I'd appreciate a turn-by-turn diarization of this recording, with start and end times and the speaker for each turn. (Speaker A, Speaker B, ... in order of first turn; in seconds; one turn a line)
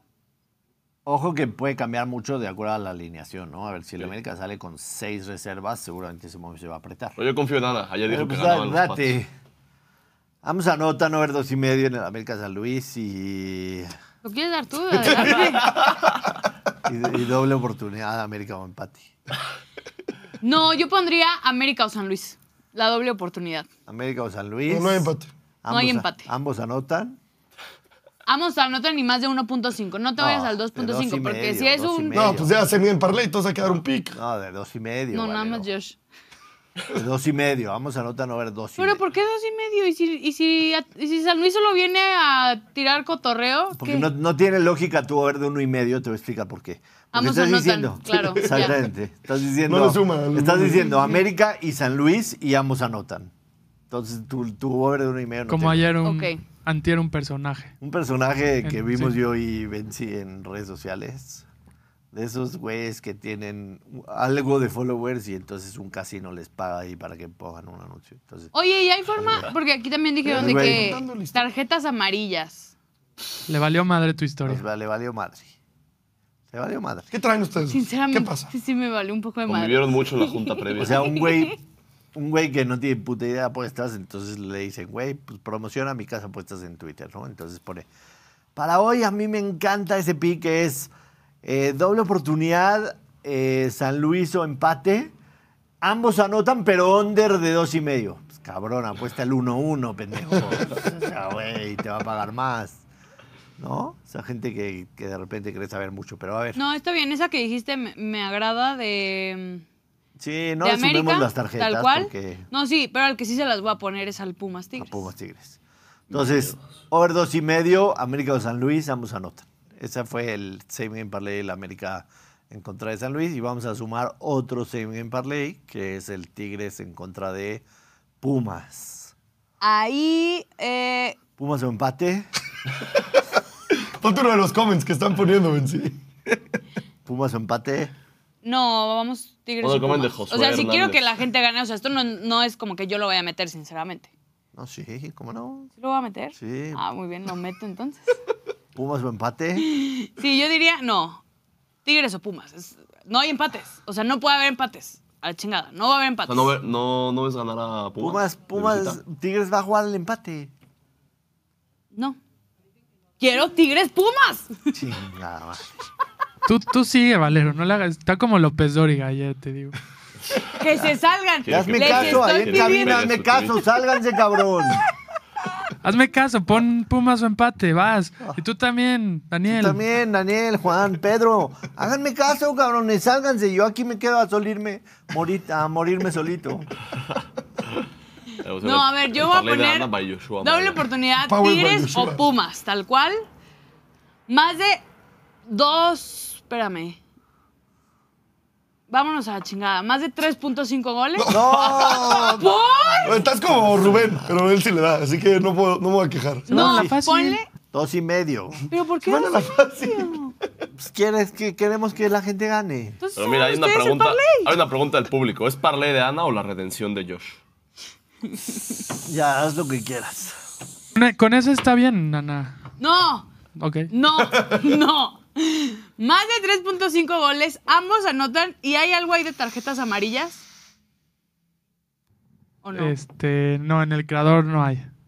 Speaker A: 1.1-7.2
Speaker B: 7.2-9.2
Speaker A: 8.1-9.3
Speaker A: 10.4-13.9
Speaker C: 14.2-15.7
Speaker A: 16.8-19.1
Speaker C: 20.4-23.7
Speaker A: 23.9-25.1
Speaker D: 24.7-25.3
Speaker A: 25.6-27.2
Speaker C: 25.7-26.3
Speaker C: 28.3-32.2
Speaker A: 30.2-32.6
Speaker D: 32.1-34.2
Speaker A: 34.1-35.7
Speaker C: 35.1-36.0
Speaker A: 36.9-39.0
Speaker C: 38.8-44.1
Speaker A: 43.7-53.3
Speaker C: 47.1-48.8
Speaker D: 49.6-50.9
Speaker C: 50.8-51.2
Speaker A: 53.9-55.9
Speaker E: 55.5-57.7
Speaker C: 56.0-56.4
Speaker A: 57.8-61.5
Speaker E: 58.6-59.1
Speaker A: 62.1-68.5
Speaker C: 68.5-72.7
Speaker A: 69.2-69.5
Speaker D: 70.2-71.4
Speaker A: 70.3-71.0
Speaker E: 73.5-74.6
Speaker A: 74.5-75.5
Speaker A: 76.5-77.1
Speaker D: 77.1-78.5
Speaker C: 77.7-81.5
Speaker B: 79.5-81.1
Speaker A: 80.8-81.6
Speaker A: 82.1-87.9
Speaker A: 88.6-90.9
Speaker A: 91.4-95.1
Speaker A: 95.8-102.8
Speaker A: 103.6-106.6
Speaker C: 106.5-109.6
Speaker A: 110.2-112.5
Speaker C: 110.6-115.1
Speaker A: 114.8-115.6
Speaker A: 116.1-127.6
Speaker B: 116.1-116.5
Speaker A: 128.2-129.1
Speaker C: 129.6-131.2
Speaker A: 131.4-132.3
Speaker D: 134.0-136.0
Speaker A: 137.1-137.9
Speaker C: 138.4-144.1
Speaker B: 139.6-141.2
Speaker A: 144.5-145.7
Speaker C: 145.8-148.2
Speaker A: 146.4-146.8
Speaker A: 148.8-149.7
Speaker C: 149.6-151.2
Speaker C: 151.8-156.5
Speaker B: 156.3-159.0
Speaker A: 158.0-160.5
Speaker C: 161.9-162.2
Speaker C: 163.2-164.7
Speaker A: 164.7-165.7
Speaker E: 166.5-169.8
Speaker C: 170.5-173.1
Speaker A: 170.7-174.9
Speaker B: 171.4-173.7
Speaker E: 175.8-179.8
Speaker A: 179.5-186.7
Speaker B: 188.4-190.9
Speaker C: 188.6-193.2
Speaker D: 191.2-192.2
Speaker C: 194.3-194.8
Speaker C: 195.5-197.0
Speaker C: 198.9-203.3
Speaker D: 201.2-202.4
Speaker A: 201.3-202.6
Speaker D: 203.0-206.9
Speaker E: 206.5-207.4
Speaker C: 206.5-207.5
Speaker A: 207.7-208.7
Speaker C: 208.7-210.3
Speaker D: 209.0-210.2
Speaker A: 210.8-213.0
Speaker C: 213.0-214.5
Speaker B: 213.2-217.4
Speaker A: 219.0-220.4
Speaker E: 221.0-222.6
Speaker C: 222.8-223.3
Speaker E: 223.6-223.9
Speaker C: 223.9-230.4
Speaker D: 224.4-224.7
Speaker C: 232.6-233.0
Speaker E: 232.8-234.9